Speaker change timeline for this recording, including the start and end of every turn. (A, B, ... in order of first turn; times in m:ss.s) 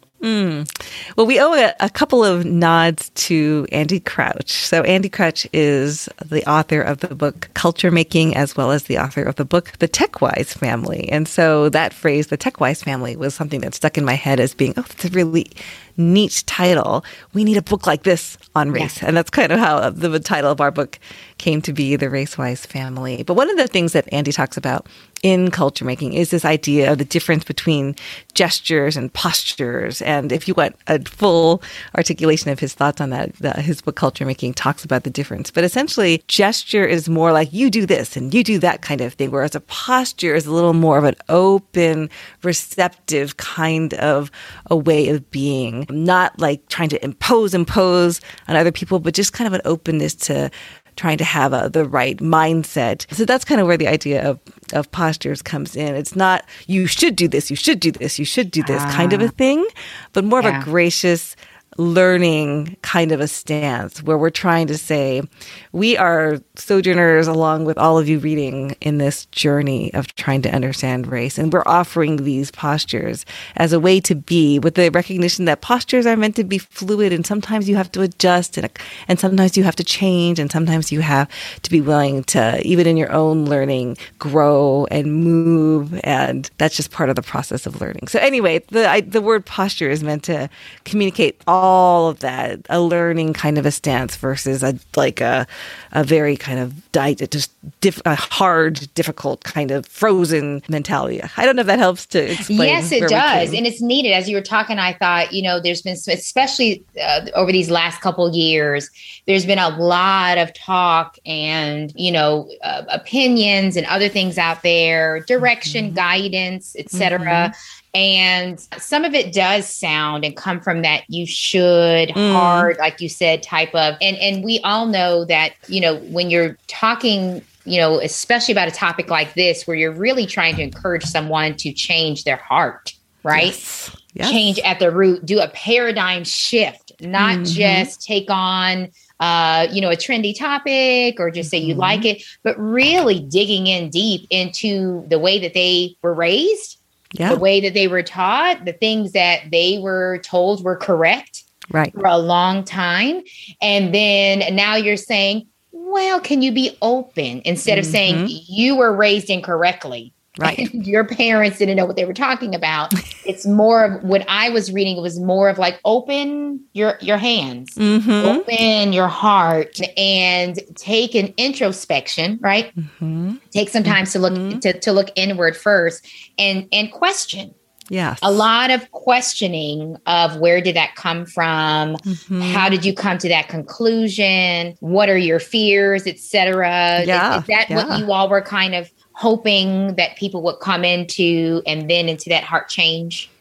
0:00.2-1:43.6 A
0:58.6-0:59.3 B
1:00.4-1:00.7 B
1:42.4-2:13.6 B
1:55.4-1:56.0 A
1:56.9-1:57.5 A
2:02.2-2:02.7 A
2:13.3-2:14.6 A
2:14.2-2:52.7 B
2:17.2-2:17.9 A
2:21.4-2:22.0 A
2:27.2-2:27.4 A
2:37.7-2:38.3 A
2:40.4-2:40.7 A
2:47.8-2:48.4 A
2:52.8-2:54.6 A
2:53.5-2:57.6 B
2:57.9-2:58.5 A
2:58.2-3:13.3 B
3:02.1-3:02.7 A
3:07.0-3:08.0 A